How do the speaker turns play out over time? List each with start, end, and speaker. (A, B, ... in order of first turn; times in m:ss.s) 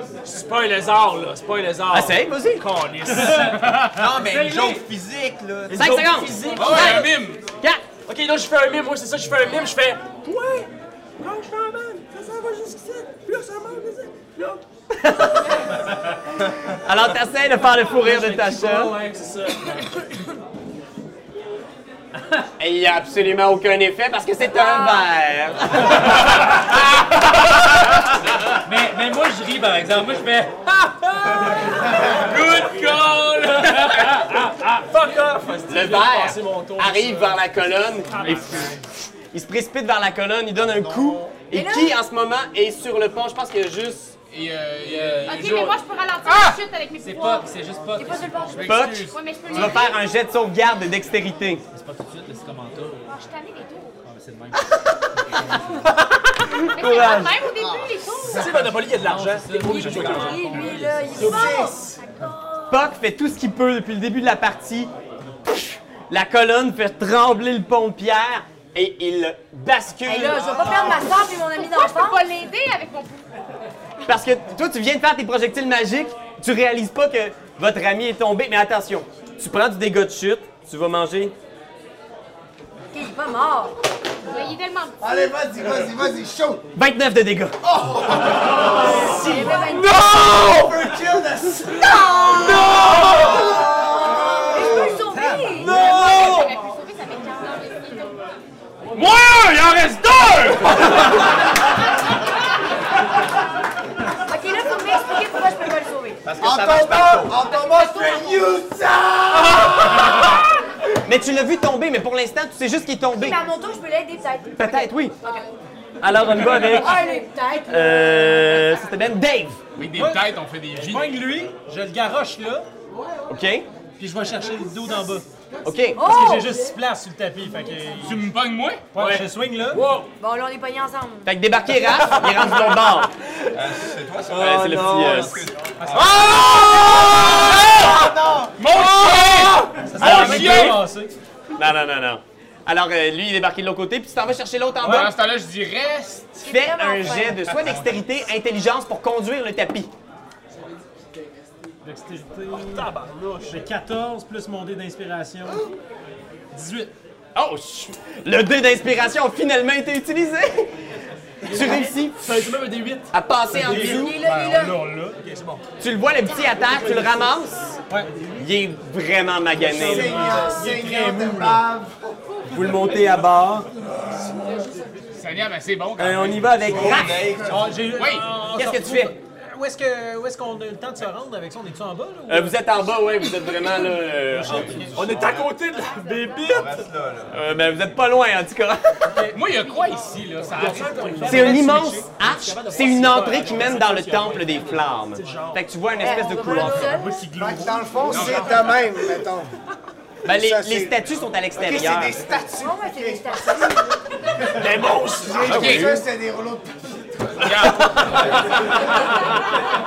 0:00.2-0:03.6 A
0:01.9-0:02.6 B
0:03.3-0:04.8 C
0:03.9-0:05.9 D
0:05.7-0:07.1 A
0:05.7-0:07.8 B
0:05.8-0:06.9 C
0:06.5-0:07.4 E
0:08.1-0:10.7 A
0:11.2-0:14.6 A
0:14.9-0:15.8 B
0:16.8-0:19.0 B
0:17.9-0:19.9 A
0:22.6-0:27.6 B
0:24.4-0:25.1 F
0:28.6-0:32.6 C
0:32.1-0:33.5 E
0:32.2-0:37.4 A
0:33.5-0:34.4 C
0:35.7-0:44.1 B
0:38.2-0:38.7 A
0:40.6-0:41.4 D
0:41.5-0:42.0 F
0:44.3-0:46.6 E
0:45.2-0:47.5 G
0:47.0-0:48.6 C
0:48.0-0:48.7 F
0:48.5-0:49.8 E
0:48.6-0:51.6 B
0:48.9-0:50.0 G
0:51.7-0:53.1 C
0:53.1-0:54.0 G
0:54.0-0:55.7 C
0:56.0-0:57.4 B
0:56.7-0:58.6 G
0:57.6-0:58.8 H
0:58.3-1:02.0 A
0:59.0-1:00.0 I
0:59.1-1:01.1 C
0:59.6-1:02.9 F
1:00.6-1:01.2 I
1:01.2-1:01.8 H
1:02.7-1:04.9 B
1:05.5-1:11.0 B
1:10.0-1:12.2 F
1:10.6-1:13.3 G
1:14.0-1:21.3 B
1:22.9-1:23.8 F
1:24.3-1:25.2 G
1:25.0-1:26.6 H
1:26.7-1:27.6 B
1:27.6-1:35.1 H
1:28.8-1:29.5 A
1:29.1-1:29.9 F
1:29.7-1:30.7 E
1:32.1-1:33.4 E
1:34.1-1:35.8 F
1:35.1-1:35.8 I
1:35.6-1:38.2 G
1:35.7-1:36.5 A
1:38.9-1:41.1 E
1:44.3-1:46.2 F
1:46.2-1:47.4 D
1:46.4-1:50.3 H
1:47.5-1:48.3 F
1:47.6-1:48.2 G
1:49.7-1:50.4 B
1:51.0-1:53.5 B
1:53.2-1:55.5 F
1:54.6-1:55.2 B
1:56.0-1:57.0 B
1:56.5-1:58.5 F
1:57.7-1:59.6 B
1:59.8-2:01.2 E
1:59.9-2:02.7 I
2:03.3-2:03.6 B
2:04.0-2:05.2 I
2:05.6-2:06.1 B
2:05.9-2:06.6 F
2:06.0-2:08.3 I
2:08.0-2:08.8 E
2:08.9-2:09.9 I
2:08.9-2:10.1 A
2:10.2-2:11.3 F
2:11.2-2:13.1 B
2:11.9-2:13.1 A
2:13.5-2:16.6 D
2:14.3-2:15.4 A
2:14.3-2:15.4 B
2:15.8-2:16.5 I
2:16.0-2:20.8 E
2:17.6-2:18.5 D
2:17.9-2:18.2 H
2:19.8-2:21.1 I
2:20.0-2:20.8 B
2:21.6-2:25.1 B
2:24.8-2:25.1 I
2:24.8-2:26.4 E
2:26.4-2:27.5 F
2:26.4-2:29.9 B
2:27.6-2:28.0 E
2:31.8-2:32.9 I
2:32.5-2:33.6 A
2:33.5-2:35.7 I
2:36.5-2:36.9 I
2:37.3-2:40.8 B
2:41.4-2:42.6 B
2:41.5-2:43.1 A
2:43.1-2:44.2 B
2:43.5-2:45.2 I
2:43.5-2:44.8 F
2:45.2-2:45.6 A
2:45.8-2:47.8 B
2:46.6-2:47.4 A
2:48.4-2:50.4 B
2:49.6-2:52.0 H
2:49.6-2:51.6 I
2:52.5-2:53.7 B
2:52.6-2:52.9 H
2:53.8-2:54.8 H
2:55.1-2:56.7 E
2:56.0-2:57.3 B
2:56.6-2:57.9 D
2:56.6-2:57.8 H
2:57.4-3:02.6 I
2:57.9-2:58.4 E
2:58.5-2:59.1 B
3:02.3-3:04.9 B
3:04.2-3:05.3 I
3:04.9-3:06.9 A
3:04.9-3:05.5 D
3:05.8-3:06.4 G
3:06.4-3:07.5 D
3:07.3-3:09.2 B
3:09.1-3:09.4 I
3:09.3-3:11.2 E
3:09.6-3:10.0 G
3:10.5-3:15.6 A
3:11.1-3:12.1 I
3:11.2-3:17.0 B
3:16.0-3:17.2 F
3:16.4-3:18.5 I
3:17.4-3:19.5 H
3:18.0-3:18.6 E
3:20.2-3:21.0 H
3:20.2-3:22.2 B
3:21.5-3:23.8 H
3:22.6-3:23.8 F
3:24.3-3:28.3 H
3:24.5-3:25.5 A
3:25.4-3:26.0 E
3:25.4-3:26.0 B
3:27.4-3:28.9 E